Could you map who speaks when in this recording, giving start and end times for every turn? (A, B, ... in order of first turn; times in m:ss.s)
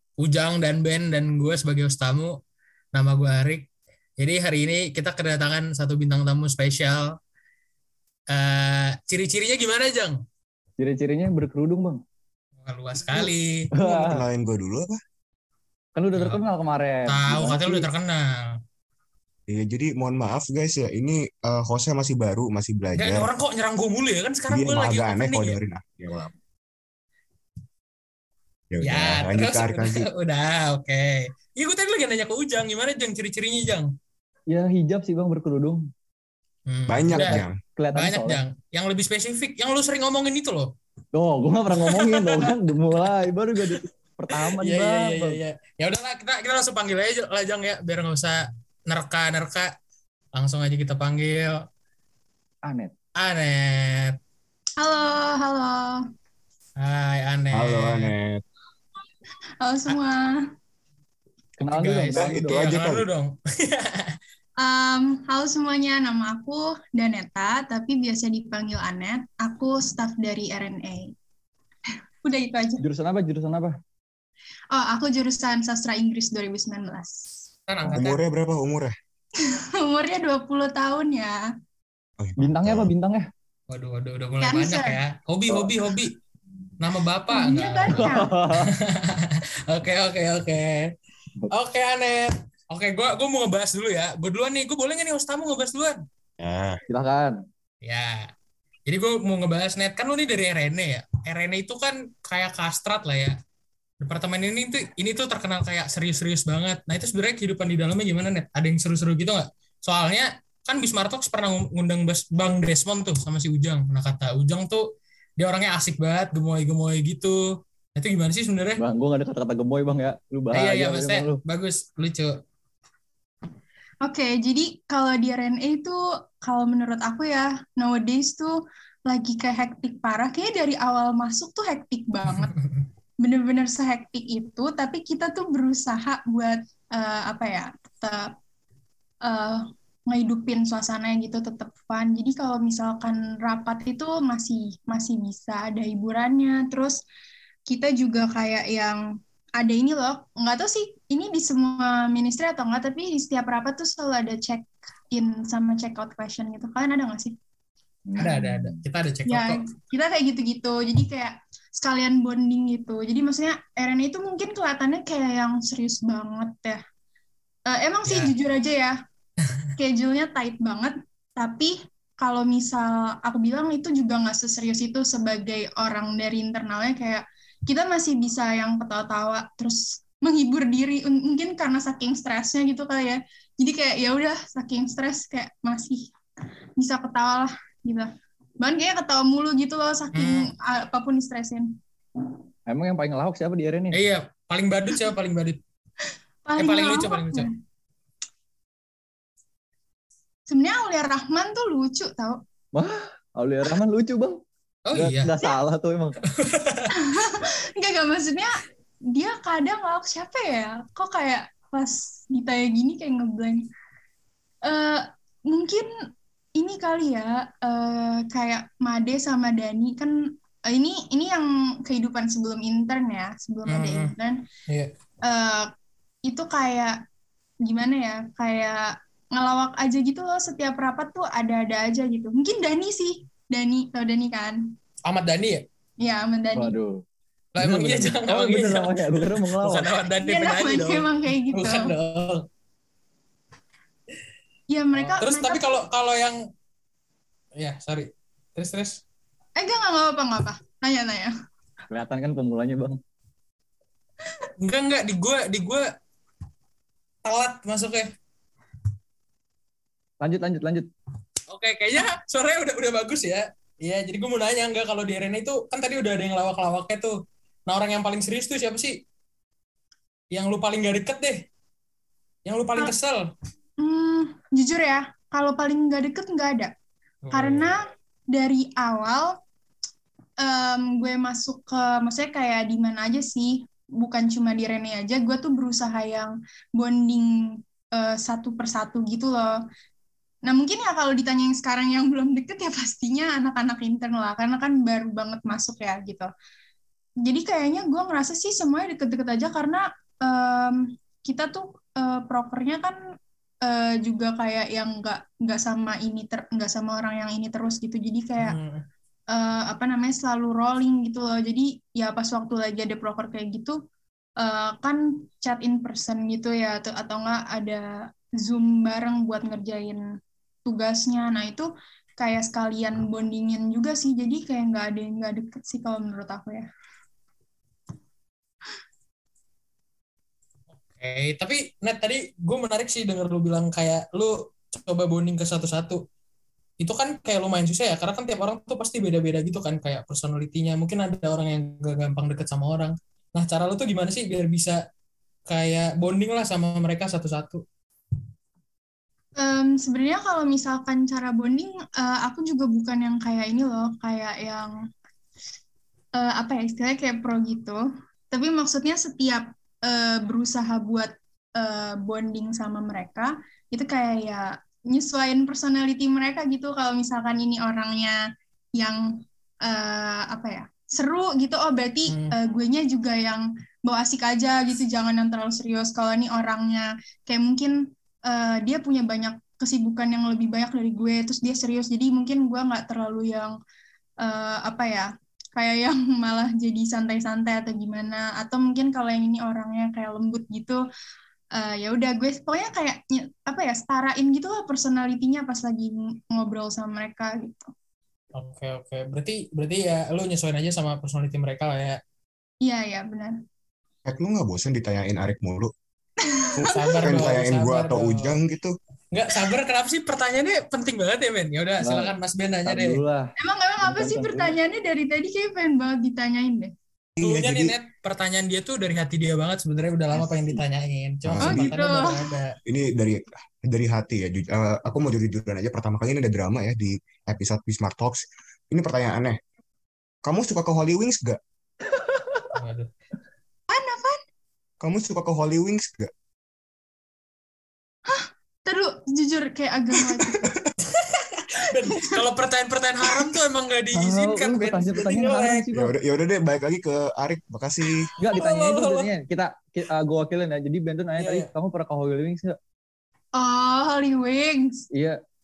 0:00.2-0:02.4 A
0:02.9-0:07.1 A
0:08.3-0:10.2 A
0:10.8-0:12.0 B
0:12.6-0:13.7 A
0:13.1-0:14.2 B
0:13.8-0:15.0 C
0:15.9-0:17.9 B
0:16.1-0:16.4 A
0:17.1-0:18.6 A
0:19.5-0:23.3 C
0:23.0-0:25.6 A
0:24.5-0:26.3 C
0:28.7-0:30.1 C
0:28.8-0:33.9 A
0:34.5-0:35.9 B
0:36.7-0:40.7 A
0:36.9-0:37.6 C
0:37.1-0:38.4 B
0:41.1-0:45.4 B
0:41.7-0:43.1 A
0:44.3-0:49.7 A
0:50.3-0:51.6 A
0:52.6-0:52.9 B
0:53.2-0:54.2 A
0:54.8-0:56.0 D
0:56.8-0:58.1 A
0:57.5-0:58.4 C
0:59.6-1:00.4 D
1:01.6-1:02.6 B
1:01.6-1:04.2 A
1:02.0-1:03.0 C
1:04.6-1:11.1 D
1:12.2-1:12.8 D
1:12.8-1:13.8 B
1:14.7-1:17.3 D
1:17.7-1:18.2 A
1:17.9-1:18.9 C
1:19.4-1:21.4 D
1:22.2-1:22.9 C
1:22.4-1:23.3 B
1:23.7-1:26.1 A
1:24.4-1:25.0 D
1:25.5-1:25.7 B
1:26.8-1:30.9 A
1:27.3-1:28.3 D
1:27.9-1:28.8 B
1:31.5-1:36.0 A
1:36.4-1:36.8 C
1:36.9-1:37.4 B
1:37.8-1:38.3 A
1:38.8-1:43.4 A
1:44.0-1:58.8 A
1:58.8-2:01.4 B
2:00.5-2:02.4 A
2:04.0-2:12.5 D
2:12.2-2:12.8 A
2:13.2-2:18.3 D
2:19.2-2:27.0 D
2:27.7-2:37.4 D
2:38.1-2:38.8 B
2:38.2-2:39.6 A
2:39.3-2:46.8 D
2:47.7-2:49.0 D
2:48.0-2:48.3 A
2:49.8-3:06.1 D
3:06.8-3:11.8 D
3:10.1-3:10.5 A
3:12.7-3:14.0 B
3:13.9-3:15.6 A
3:16.4-3:17.5 D
3:16.6-3:17.5 A
3:20.5-3:22.4 D
3:22.7-3:24.4 B
3:24.9-3:25.3 A
3:24.9-3:26.2 B
3:26.3-3:26.9 A
3:26.9-3:33.7 D
3:34.6-3:35.9 D
3:36.6-3:44.4 D
3:43.7-3:44.1 A
3:45.2-3:45.7 D
3:46.2-3:47.0 D
3:47.6-3:54.7 D
3:55.0-3:55.6 A
3:56.0-3:56.8 D
3:56.5-3:57.0 B
3:57.5-4:02.4 A
3:57.6-3:59.9 B
4:00.2-4:01.9 D
4:04.7-4:05.8 D
4:05.0-4:06.4 A
4:07.6-4:09.0 A
4:09.6-4:11.3 D
4:11.9-4:13.0 B
4:14.6-4:15.8 A
4:17.2-4:18.1 A
4:20.2-4:20.9 B
4:21.5-4:27.2 A
4:27.7-4:29.0 A
4:30.3-4:31.4 A
4:32.4-4:33.3 A
4:33.8-4:36.7 D
4:37.2-4:37.8 A
4:37.3-4:39.4 D
4:40.4-4:49.6 D
4:50.4-4:56.3 D
4:57.2-5:03.0 D
5:03.6-5:08.6 D
5:08.4-5:08.8 A
5:09.3-5:13.8 D
5:14.4-5:20.0 D
5:20.6-5:26.7 D
5:30.9-5:36.0 A
5:36.8-5:44.8 A
5:45.5-5:47.6 A
5:49.4-5:54.8 D
5:56.2-6:08.2 D
6:08.8-6:23.6 D
6:12.1-6:12.4 A
6:24.2-6:30.8 D
6:31.6-6:37.7 D
6:38.3-6:42.0 A
6:42.6-6:43.4 D
6:44.0-6:45.7 C
6:46.2-6:47.2 D
6:46.5-6:48.8 C
6:46.7-6:48.4 A
6:49.1-6:53.0 A
6:51.8-6:52.1 B
6:52.6-6:54.6 B
6:53.4-6:56.7 D
6:57.2-6:57.7 C
6:57.2-7:02.6 A
7:00.1-7:00.6 B
7:01.2-7:01.8 C
7:01.4-7:02.2 D
7:02.6-7:09.4 C
7:10.2-7:11.4 C
7:11.9-7:12.5 B
7:12.5-7:12.9 A
7:13.7-7:14.2 D
7:14.8-7:16.1 C
7:18.1-7:20.6 D
7:20.3-7:20.7 C
7:20.8-7:25.6 A
7:21.6-7:22.2 D
7:23.9-7:25.9 B
7:25.7-7:28.1 C
7:28.2-7:32.6 B
7:28.3-7:29.1 A
7:31.2-7:31.5 A
7:33.4-7:34.9 D
7:34.9-7:35.2 B